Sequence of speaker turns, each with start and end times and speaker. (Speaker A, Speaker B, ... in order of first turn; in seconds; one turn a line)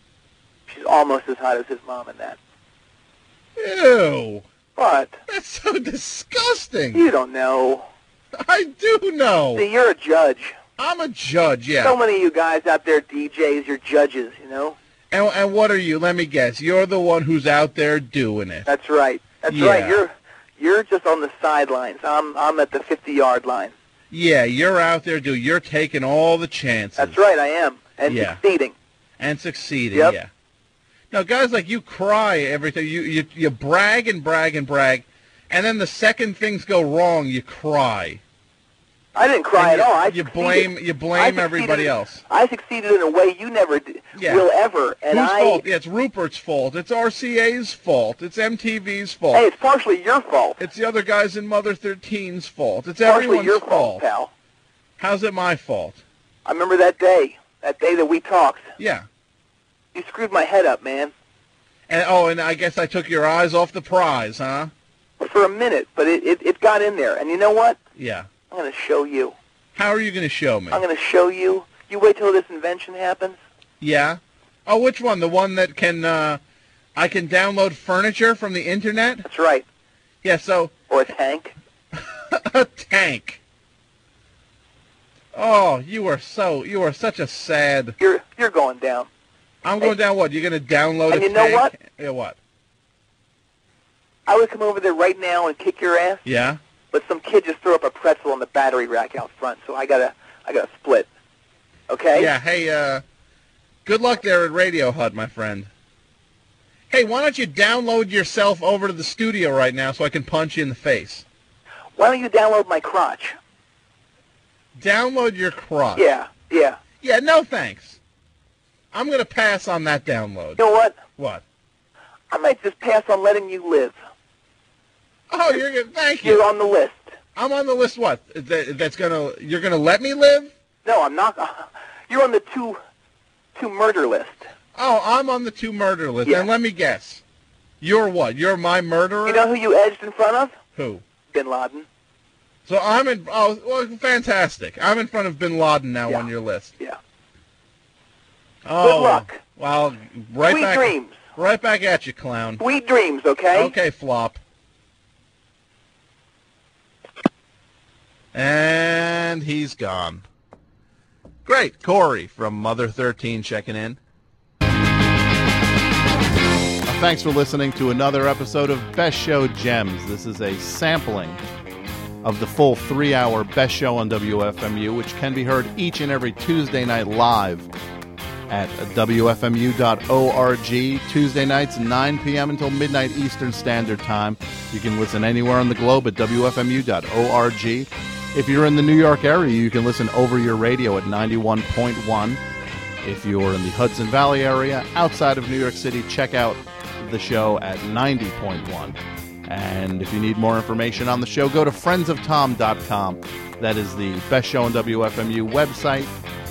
Speaker A: 0.7-2.4
Speaker B: 3.6-4.4
Speaker A: 4.8-5.2
Speaker B: 5.3-7.0
Speaker A: 6.9-7.8
Speaker B: 8.4-9.6
Speaker A: 9.5-10.5
Speaker B: 10.8-12.0
Speaker A: 11.8-14.8
Speaker B: 15.1-18.7
Speaker A: 18.6-23.7
Speaker B: 19.5-20.0
Speaker B: 24.1-27.2
Speaker A: 27.0-28.7
Speaker B: 28.1-28.4
Speaker B: 29.2-30.3
Speaker B: 31.1-38.2
Speaker A: 39.1-45.6
Speaker B: 39.6-42.2
Speaker B: 44.1-44.5
Speaker B: 45.1-49.4
Speaker A: 49.3-50.6
Speaker B: 50.6-54.0
Speaker A: 53.0-54.3
Speaker B: 55.0-56.0
Speaker A: 56.4-58.7
Speaker B: 58.8-59.0
Speaker A: 59.9-61.1
Speaker B: 61.9-64.7
Speaker A: 65.2-67.8
Speaker B: 68.0-68.3
Speaker A: 68.5-69.3
Speaker B: 69.7-70.8
Speaker A: 70.7-73.4
Speaker B: 73.8-76.4
Speaker B: 77.0-79.2
Speaker A: 79.2-79.7
Speaker B: 80.2-80.7
Speaker A: 80.9-81.5
Speaker B: 81.9-83.4
Speaker B: 85.3-88.0
Speaker A: 88.0-89.1
Speaker B: 89.6-92.4
Speaker A: 91.1-91.7
Speaker A: 94.3-96.2
Speaker B: 96.2-96.6
Speaker A: 96.9-101.1
Speaker A: 101.9-102.3
Speaker B: 102.1-103.0
Speaker B: 103.8-105.7
Speaker B: 106.9-111.2
Speaker A: 112.0-113.3
Speaker B: 114.8-116.0
Speaker A: 116.0-116.8
Speaker B: 117.0-118.0
Speaker B: 118.9-120.6
Speaker A: 120.6-121.0
Speaker B: 121.2-121.4
Speaker A: 122.3-124.0
Speaker B: 125.3-126.4
Speaker A: 126.2-127.1
Speaker B: 127.3-130.5
Speaker A: 130.8-132.8
Speaker A: 133.6-134.5
Speaker B: 134.8-137.2
Speaker B: 137.8-139.5
Speaker A: 139.2-140.5
Speaker B: 140.8-141.0
Speaker A: 141.3-141.9
Speaker B: 142.7-146.7
Speaker B: 148.6-152.6
Speaker A: 148.8-149.4
Speaker A: 150.4-151.2
Speaker A: 152.6-153.7
Speaker B: 153.5-154.4
Speaker B: 158.3-160.2
Speaker B: 161.4-164.0
Speaker C: 166.9-171.4
Speaker C: 172.2-177.6
Speaker C: 178.5-192.4
Speaker C: 193.0-198.9
Speaker C: 199.5-206.1